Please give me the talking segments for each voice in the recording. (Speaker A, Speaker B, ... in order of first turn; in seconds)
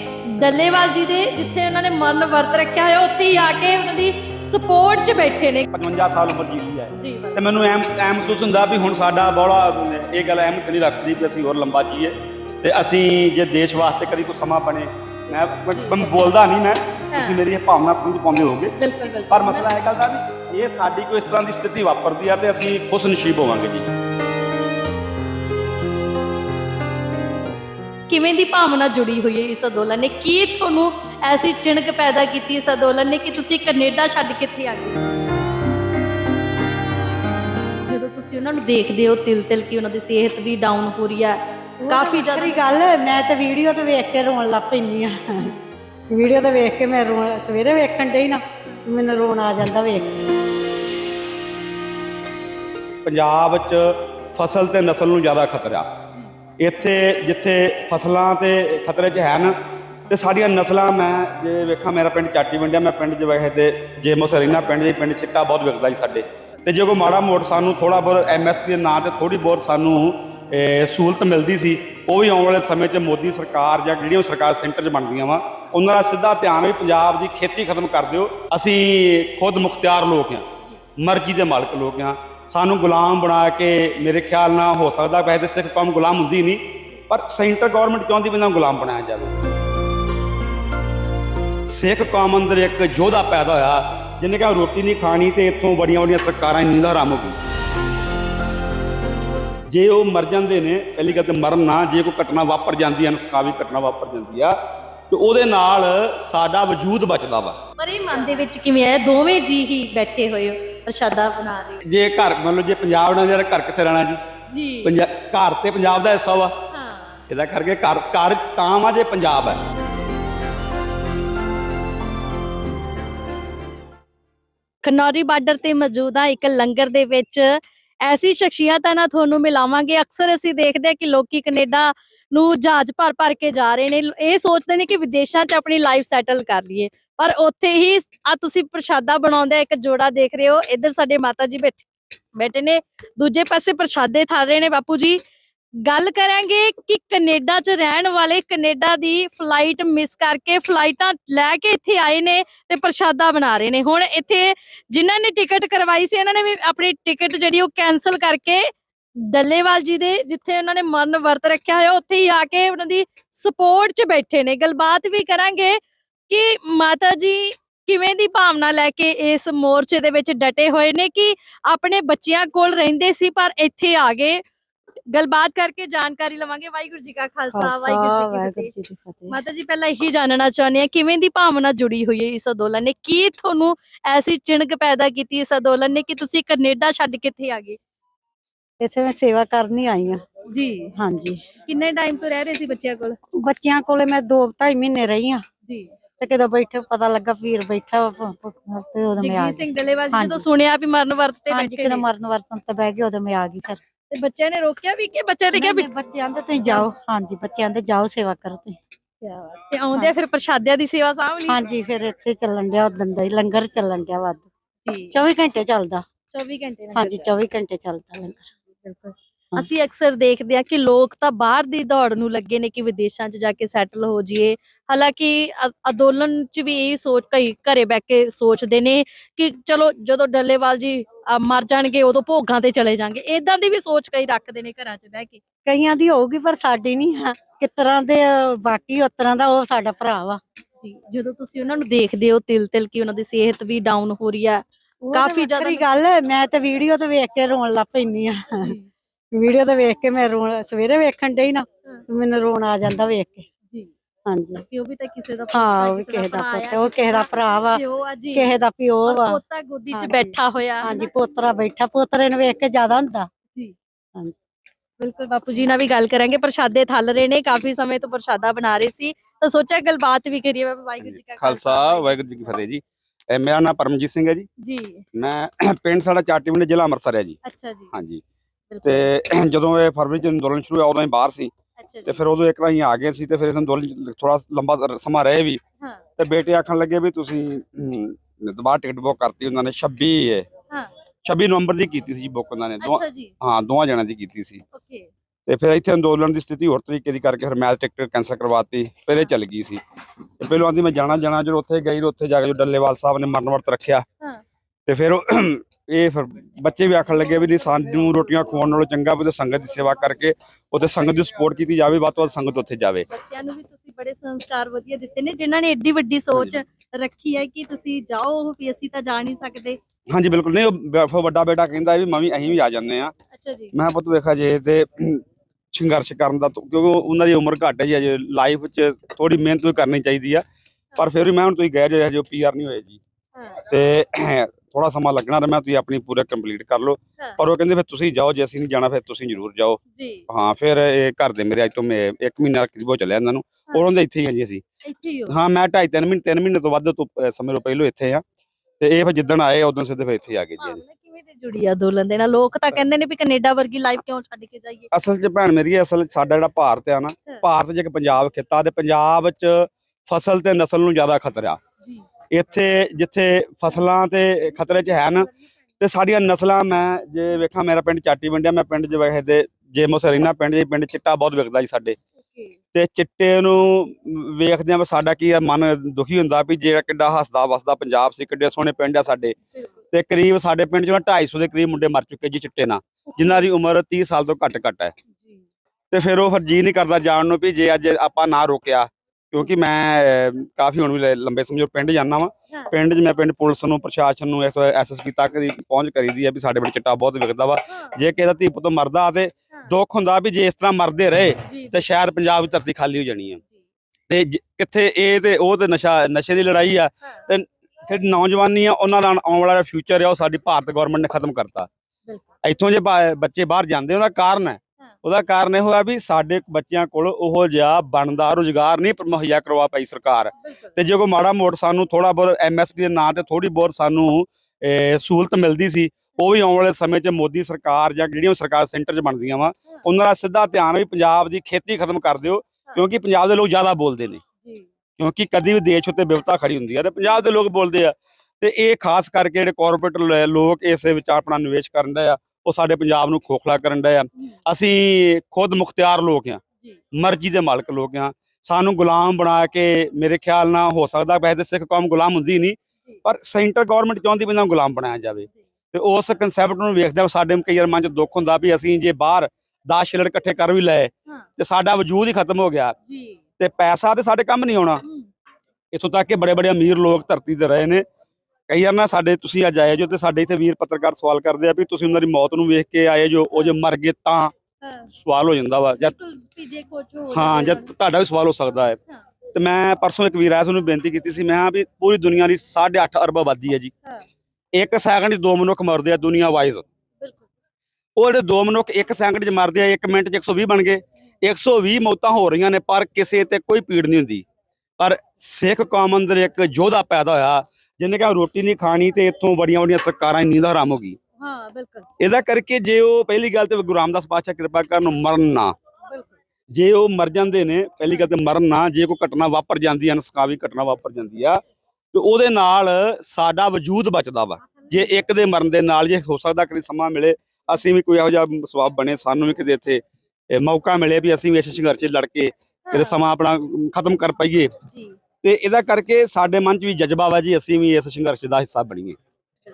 Speaker A: 0.3-5.7, 7.0-7.7, 15.7-16.1, 17.1-17.4, 18.8-19.7, 28.1-35.0, 37.9-42.7, 107.8-111.8, 114.5-115.0, 116.7-117.2, 124.8-141.9, 142.4-145.2, 145.8-174.4, 175.1-178.7, 179.3-187.8, 190.5-190.9, 191.6-193.2, 195.7-195.9, 199.2-202.0, 204.1-205.9, 206.6-206.9, 209.2-211.6, 214.8-215.2, 216.3-217.2, 218.8-235.4, 240.8-245.8, 248.6-248.9, 254.7-261.1, 265.0-272.1, 274.6-275.0, 277.4-277.9, 278.7-279.1, 281.8-282.2, 292.8-293.3, 294.7-295.1, 313.1-319.8, 323.3-323.7, 333.4-333.6, 339.9-340.3, 344.8-345.4, 350.6-354.9, 361.8-362.1, 372.2-372.6, 383.1-383.5, 385.1-385.4, 397.7-397.9, 401.4-401.8, 420.4-420.7, 462.9-463.2, 464.8-465.1, 474.6-474.9, 475.8-477.7, 487.0-487.3, 501.2-501.9, 505.9-506.2, 514.4-515.0, 522.7-523.0, 524.7-525.0
Speaker B: 5.7-18.7, 19.3-23.9, 53.0-55.9, 56.6-59.5, 60.1-80.5, 81.0-89.4, 91.7-97.4, 99.7-104.6, 105.1-107.6, 111.8-114.2, 114.8-116.5, 117.3-119.6, 271.0-274.5, 275.1-277.4, 277.9-278.2, 278.8-281.5, 282.1-285.6, 286.2-290.5, 291.2-294.6, 295.5-299.8, 300.4-304.1, 304.9-313.1, 320.1-323.1, 323.7-330.4, 331.0-333.0, 333.7-344.6, 345.3-348.2, 348.8-350.8, 354.9-361.6, 362.3-372.0, 372.7-379.4, 379.9-384.9, 385.9-403.4, 404.1-411.7, 412.4-434.2, 435.0-446.4, 446.9-462.8, 463.4-464.8, 465.7-467.8, 468.5-474.3, 474.9-475.9, 477.1-478.8, 479.4-483.7, 484.6-486.6, 488.0-494.2, 494.8-501.0, 502.0-505.5, 506.5-511.4, 511.9-524.5, 525.2-529.0
Speaker C: 41.8-45.5, 46.1-50.1, 177.5-179.4, 188.8-190.2, 191.0-191.4, 193.4-195.4, 196.2-200.4, 201.5-203.8, 205.5-208.8, 211.5-214.5, 215.1-216.0, 216.9-218.5, 235.7-240.4, 245.0-248.8, 249.3-253.5, 254.3-254.6, 255.5-259.4, 259.9-263.3